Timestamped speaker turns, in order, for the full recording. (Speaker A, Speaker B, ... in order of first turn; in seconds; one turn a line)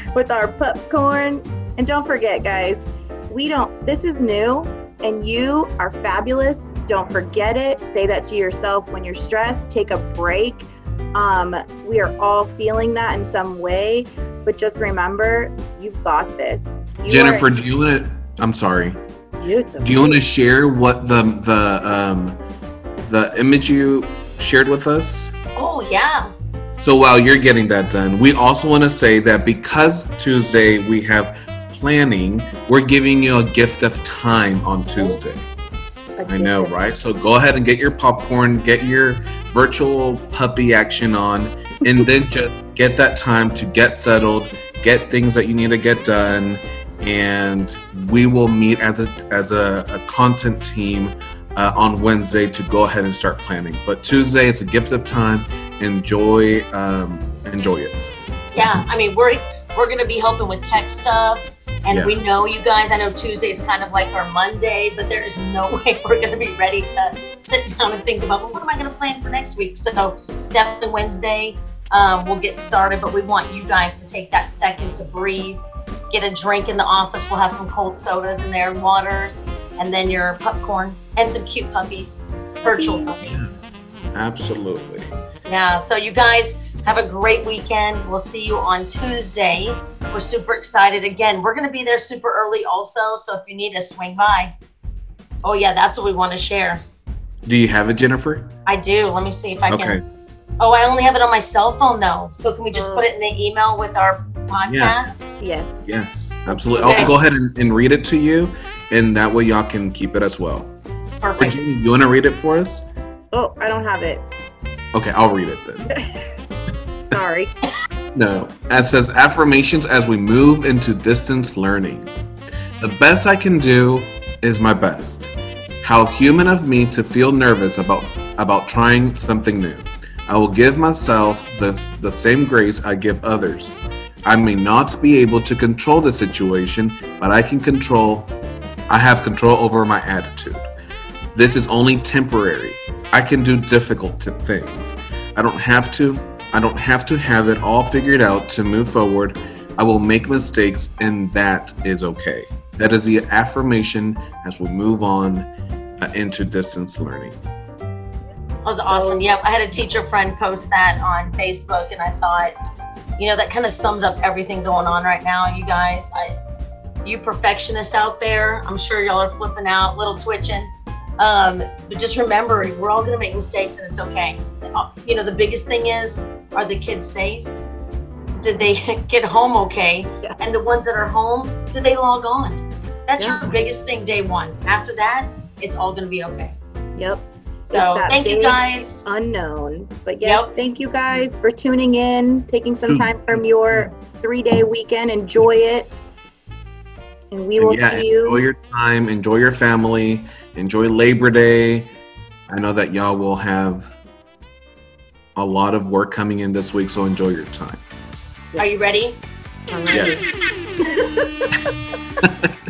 Speaker A: 0.1-17.6
Speaker B: 17.1-19.0
Speaker A: 19.4-20.2
Speaker B: 19.8-22.4
Speaker B: 23.0-25.3
Speaker C: 25.6-26.3
Speaker B: 26.8-35.5
Speaker A: 34.9-35.2
Speaker A: 36.2-36.9
Speaker B: 36.2-58.1
Speaker C: 58.5-83.5
Speaker B: 61.9-62.2
Speaker A: 82.6-83.2
Speaker B: 83.2-83.6
Speaker B: 84.1-85.1
Speaker C: 85.5-94.5
Speaker C: 95.4-96.8
Speaker B: 97.5-98.5
Speaker C: 98.7-100.0
Speaker B: 99.7-100.0
Speaker C: 100.6-105.3
Speaker A: 102.7-103.1
Speaker B: 104.7-105.0
Speaker A: 105.4-105.8
Speaker B: 105.8-110.7
Speaker A: 106.5-106.9
Speaker C: 106.7-107.1
Speaker C: 111.2-111.6
Speaker B: 111.4-112.8
Speaker A: 113.3-114.3
Speaker B: 114.9-115.9
Speaker A: 115.9-116.2
Speaker A: 117.1-117.5
Speaker B: 118.2-122.1
Speaker B: 122.8-138.3
Speaker B: 138.9-140.6
Speaker B: 141.3-155.5
Speaker B: 156.0-157.4
Speaker C: 158.6-162.6
Speaker A: 158.8-159.3
Speaker C: 163.2-166.4
Speaker C: 167.0-177.5
Speaker C: 178.4-186.6
Speaker A: 183.2-183.5
Speaker A: 186.9-196.0
Speaker C: 187.7-189.1
Speaker C: 190.2-190.5
Speaker B: 192.9-193.9
Speaker A: 197.3-198.4
Speaker B: 197.6-201.9
Speaker B: 202.5-203.9
Speaker B: 205.4-207.8
Speaker C: 208.6-209.2
Speaker A: 209.7-210.2
Speaker B: 209.9-210.2
Speaker A: 210.8-211.6
Speaker B: 212.2-212.5